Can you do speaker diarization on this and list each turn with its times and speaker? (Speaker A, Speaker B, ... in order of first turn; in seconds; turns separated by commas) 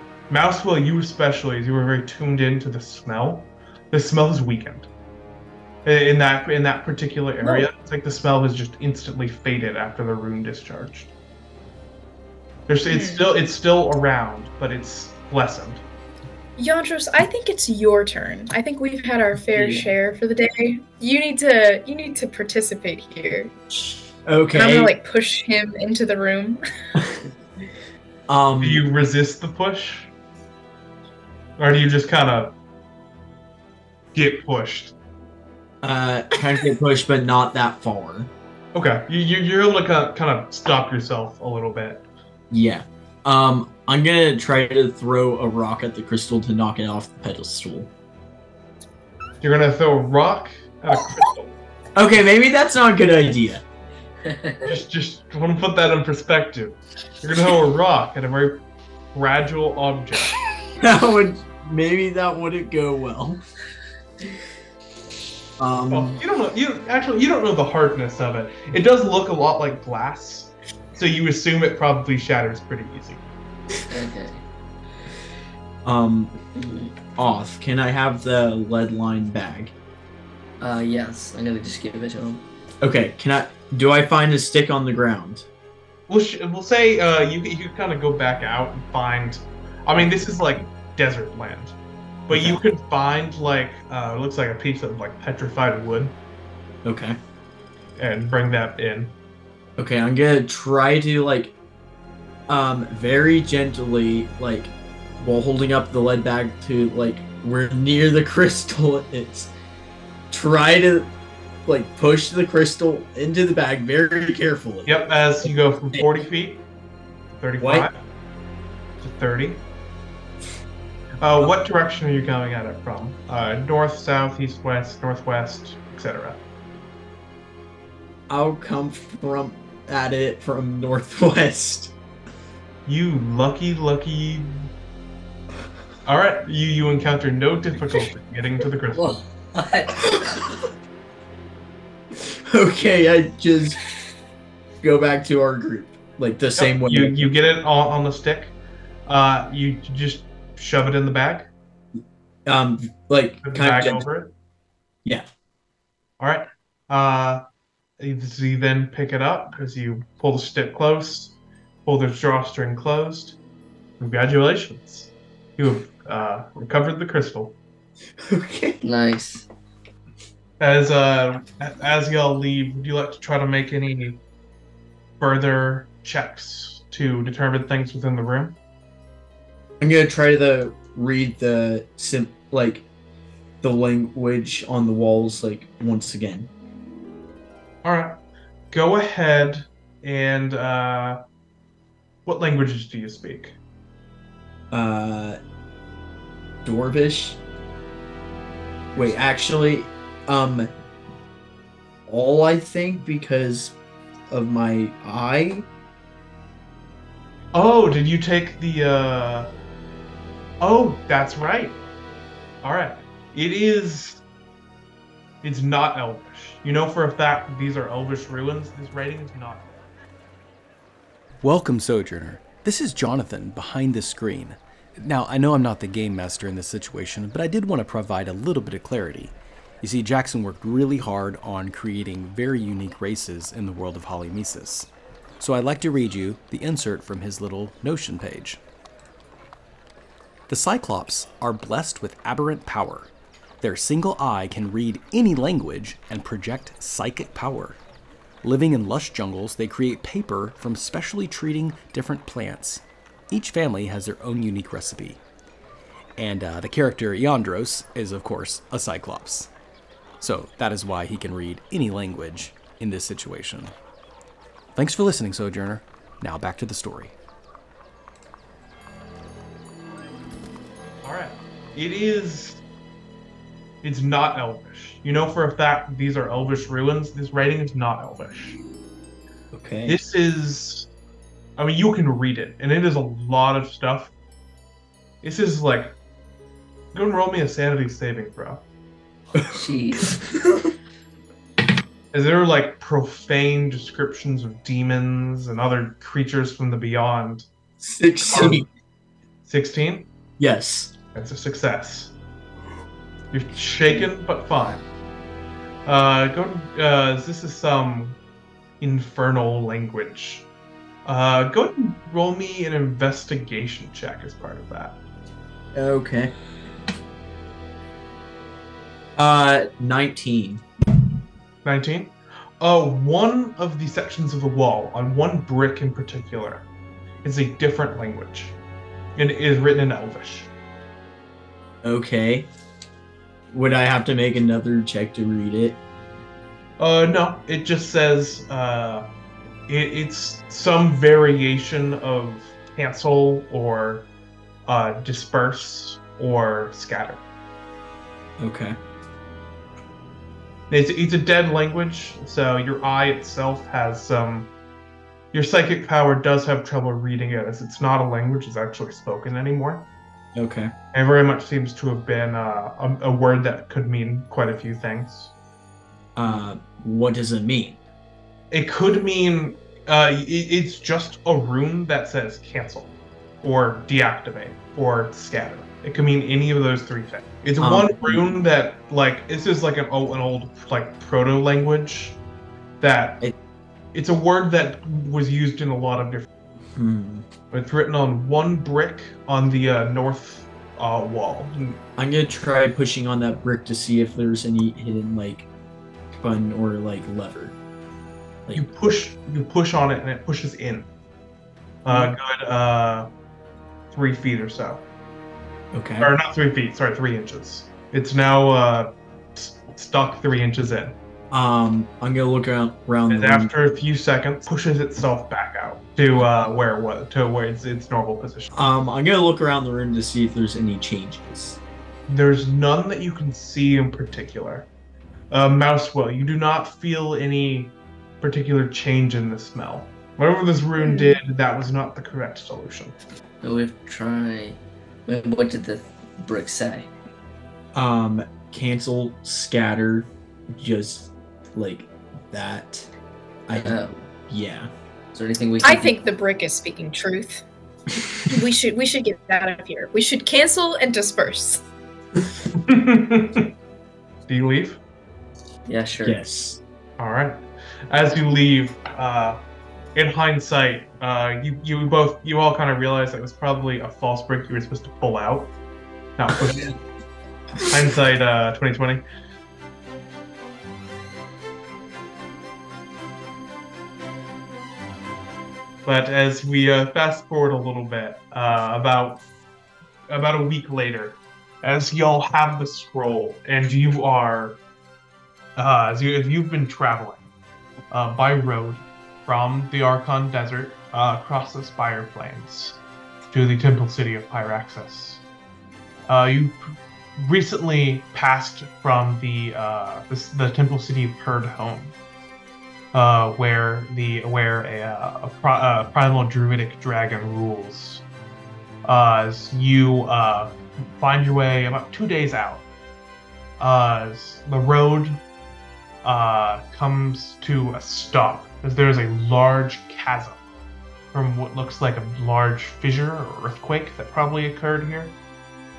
Speaker A: 0.3-4.9, Speaker A: 5.8-11.1, Speaker A: 12.7-15.8, Speaker B: 12.9-13.3, Speaker B: 16.6-23.5, Speaker C: 19.5-19.9, Speaker D: 24.2-24.9, Speaker B: 24.5-26.6, Speaker D: 28.3-28.8, Speaker A: 28.6-30.1, Speaker A: 31.6-32.5, Speaker A: 34.1-34.9, Speaker D: 35.8-38.3, Speaker A: 38.7-42.0, Speaker D: 42.5-47.9, Speaker A: 49.4-51.4, Speaker D: 52.0-53.6, Speaker C: 54.2-54.7, Speaker A: 54.6-58.6, Speaker A: 59.1-60.4, Speaker D: 60.8-63.4, Speaker D: 65.6-66.2, Speaker A: 65.9-73.2, Speaker C: 73.9-74.4, Speaker D: 75.8-76.3, Speaker C: 76.5-77.0, Speaker D: 77.2-79.7, Speaker C: 80.6-82.4, Speaker D: 82.8-85.5, Speaker A: 86.1-96.2, Speaker D: 92.3-92.6, Speaker D: 96.8-97.2, Speaker A: 98.0-99.1, Speaker D: 99.8-101.5, Speaker D: 102.5-109.5, Speaker D: 110.3-111.1, Speaker D: 111.6-115.1, Speaker A: 114.8-116.6, Speaker A: 117.3-118.0, Speaker D: 117.6-117.9, Speaker A: 119.0-119.6, Speaker A: 121.2-126.4, Speaker D: 128.3-131.9, Speaker A: 132.8-134.5, Speaker A: 136.1-139.2, Speaker C: 138.9-140.0, Speaker D: 140.0-140.6, Speaker D: 142.1-143.8, Speaker D: 144.8-147.3, Speaker A: 146.6-148.5, Speaker A: 149.1-151.5, Speaker D: 152.4-154.0, Speaker A: 153.4-154.3, Speaker A: 156.2-157.4, Speaker A: 158.0-163.4, Speaker A: 164.0-167.6, Speaker D: 168.2-168.8, Speaker C: 168.8-169.4, Speaker A: 170.6-174.2, Speaker A: 175.2-178.6, Speaker D: 179.8-182.8, Speaker D: 183.6-186.5, Speaker A: 187.8-188.2, Speaker A: 188.7-191.2, Speaker A: 192.2-193.5, Speaker D: 194.7-195.4, Speaker D: 196.6-197.4, Speaker D: 198.9-200.7, Speaker D: 202.1-203.8, Speaker D: 204.3-205.7, Speaker A: 207.5-209.5, Speaker A: 210.6-211.8, Speaker A: 212.6-214.2, Speaker A: 215.4-219.7, Speaker E: 221.4-234.9, Speaker E: 235.4-238.6, Speaker E: 240.5-247.8, Speaker E: 248.4-255.2, Speaker E: 256.2-259.5, Speaker E: 260.2-263.7, Speaker E: 264.7-267.1, Speaker A: 271.0-272.6, Speaker A: 273.8-278.6, Speaker D: 279.5-280.0, Speaker A: 279.9-280.9, Speaker A: 281.6-284.1, Speaker A: 285.2-285.9, Speaker A: 286.9-288.6, Speaker D: 289.4-289.6, Speaker C: 289.5-290.2, Speaker A: 292.1-297.5, Speaker D: 297.8-298.6, Speaker A: 298.2-298.6, Speaker A: 299.4-300.1, Speaker D: 300.4-300.9, Speaker A: 301.1-302.1, Speaker A: 303.3-304.8, Speaker A: 305.9-308.2, Speaker A: 308.8-310.5, Speaker A: 311.0-315.0, Speaker D: 315.7-316.3, Speaker D: 319.1-320.6, Speaker A: 321.6-326.6, Speaker A: 327.2-328.6, Speaker A: 329.1-330.5, Speaker D: 331.8-332.5, Speaker D: 333.5-335.8, Speaker A: 336.8-339.1, Speaker A: 339.7-344.1, Speaker A: 344.6-347.2, Speaker D: 348.4-348.8, Speaker A: 350.7-354.5, Speaker A: 355.3-359.9, Speaker D: 360.3-360.7, Speaker A: 360.9-365.3, Speaker D: 366.1-367.8, Speaker A: 368.5-382.2, Speaker D: 377.6-378.3, Speaker A: 382.8-383.3, Speaker A: 383.9-386.3, Speaker D: 386.7-387.2, Speaker A: 387.5-391.8, Speaker D: 392.0-395.5, Speaker D: 396.2-397.6, Speaker A: 398.5-400.9, Speaker A: 401.8-403.1, Speaker D: 401.9-402.1, Speaker A: 403.9-404.8, Speaker D: 405.7-406.1, Speaker A: 406.0-410.9, Speaker D: 411.3-413.5, Speaker A: 413.1-418.5, Speaker D: 418.5-421.6, Speaker A: 422.1-424.7, Speaker A: 425.3-432.9, Speaker B: 430.8-431.2, Speaker C: 433.4-436.9, Speaker D: 437.7-442.9, Speaker D: 443.5-444.7, Speaker C: 443.6-444.1, Speaker C: 445.1-445.9, Speaker B: 445.6-447.4, Speaker B: 448.3-451.6, Speaker A: 452.6-453.5, Speaker A: 454.3-454.8, Speaker C: 455.7-456.2, Speaker D: 456.0-456.6, Speaker A: 457.0-459.4, Speaker A: 459.9-465.5, Speaker A: 466.2-466.7, Speaker A: 467.6-469.0, Speaker A: 475.8-479.2, Speaker A: 480.1-484.6, Speaker A: 485.6-487.3, Speaker A: 487.9-495.2, Speaker A: 496.1-496.6, Speaker A: 497.2-501.9, Speaker A: 502.9-508.0, Speaker A: 508.8-512.6, Speaker A: 513.6-515.2, Speaker A: 516.0-520.4, Speaker A: 521.1-525.1